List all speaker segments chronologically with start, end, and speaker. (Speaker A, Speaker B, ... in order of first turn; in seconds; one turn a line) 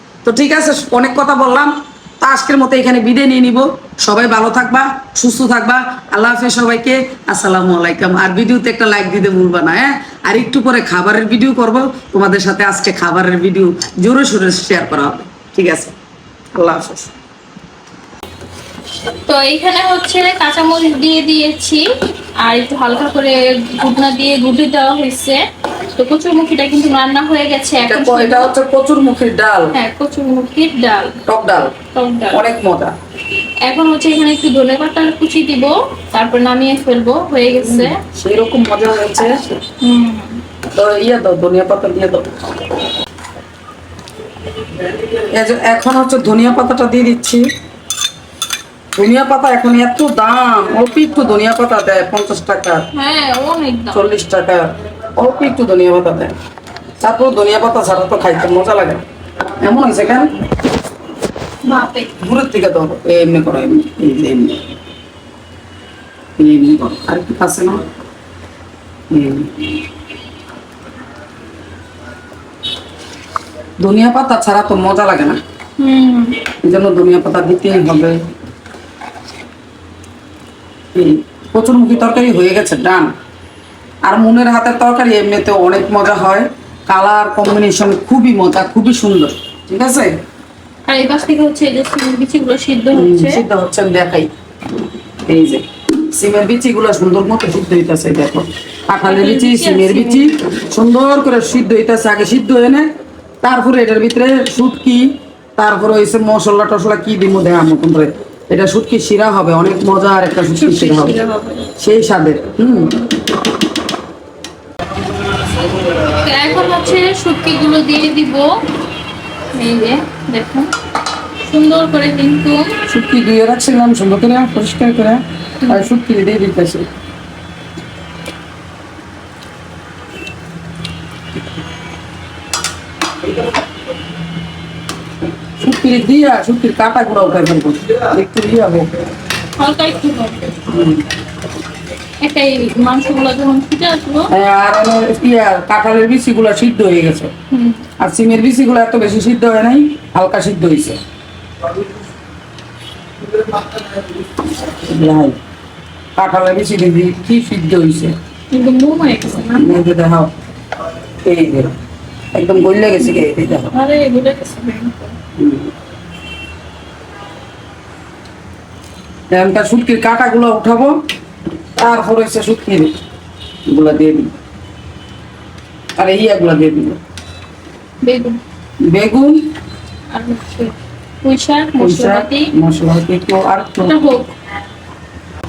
Speaker A: 0.2-15.9
Speaker A: 16.6-17.1
Speaker B: 19.2-21.8
Speaker B: 22.4-25.4
Speaker B: 25.9-28.5
Speaker A: 27.8-29.7
Speaker B: 29.7-31.2
Speaker A: 31.2-31.7
Speaker B: 31.9-32.4
Speaker A: 32.3-32.9
Speaker B: 33.6-38.0
Speaker A: 37.6-39.5
Speaker B: 39.8-40.4
Speaker A: 40.7-42.4
Speaker A: 45.2-47.4
Speaker A: 49.0-52.9
Speaker B: 52.9-54.0
Speaker A: 53.9-56.3
Speaker A: 57.0-59.0
Speaker A: 59.6-60.3
Speaker B: 61.6-62.1
Speaker A: 62.2-64.6
Speaker A: 66.4-67.8
Speaker A: 69.1-69.7
Speaker A: 73.8-75.4
Speaker B: 75.8-76.4
Speaker A: 76.6-78.2
Speaker A: 80.9-83.1
Speaker A: 84.0-90.2
Speaker B: 90.9-93.4
Speaker A: 92.9-94.3
Speaker A: 95.3-102.9
Speaker B: 99.0-100.3
Speaker A: 103.4-111.1
Speaker B: 110.5-111.7
Speaker A: 111.8-113.0
Speaker B: 116.0-118.5
Speaker B: 119.5-120.7
Speaker B: 121.5-122.7
Speaker A: 122.9-126.9
Speaker A: 135.6-139.0
Speaker B: 139.6-140.6
Speaker A: 140.7-141.0
Speaker B: 142.2-144.3
Speaker A: 144.3-147.3
Speaker B: 147.5-147.8
Speaker A: 148.0-151.0
Speaker A: 153.3-155.4
Speaker A: 156.2-158.1
Speaker B: 158.5-159.7
Speaker A: 159.6-160.3
Speaker A: 161.2-161.7
Speaker A: 162.3-163.7
Speaker B: 163.0-165.1
Speaker A: 165.4-165.7
Speaker A: 169.3-171.0
Speaker A: 171.8-172.9
Speaker A: 173.7-174.3
Speaker A: 176.0-177.0
Speaker B: 178.0-178.4
Speaker A: 178.9-179.4
Speaker B: 180.1-182.5
Speaker A: 181.8-183.9
Speaker B: 183.8-184.3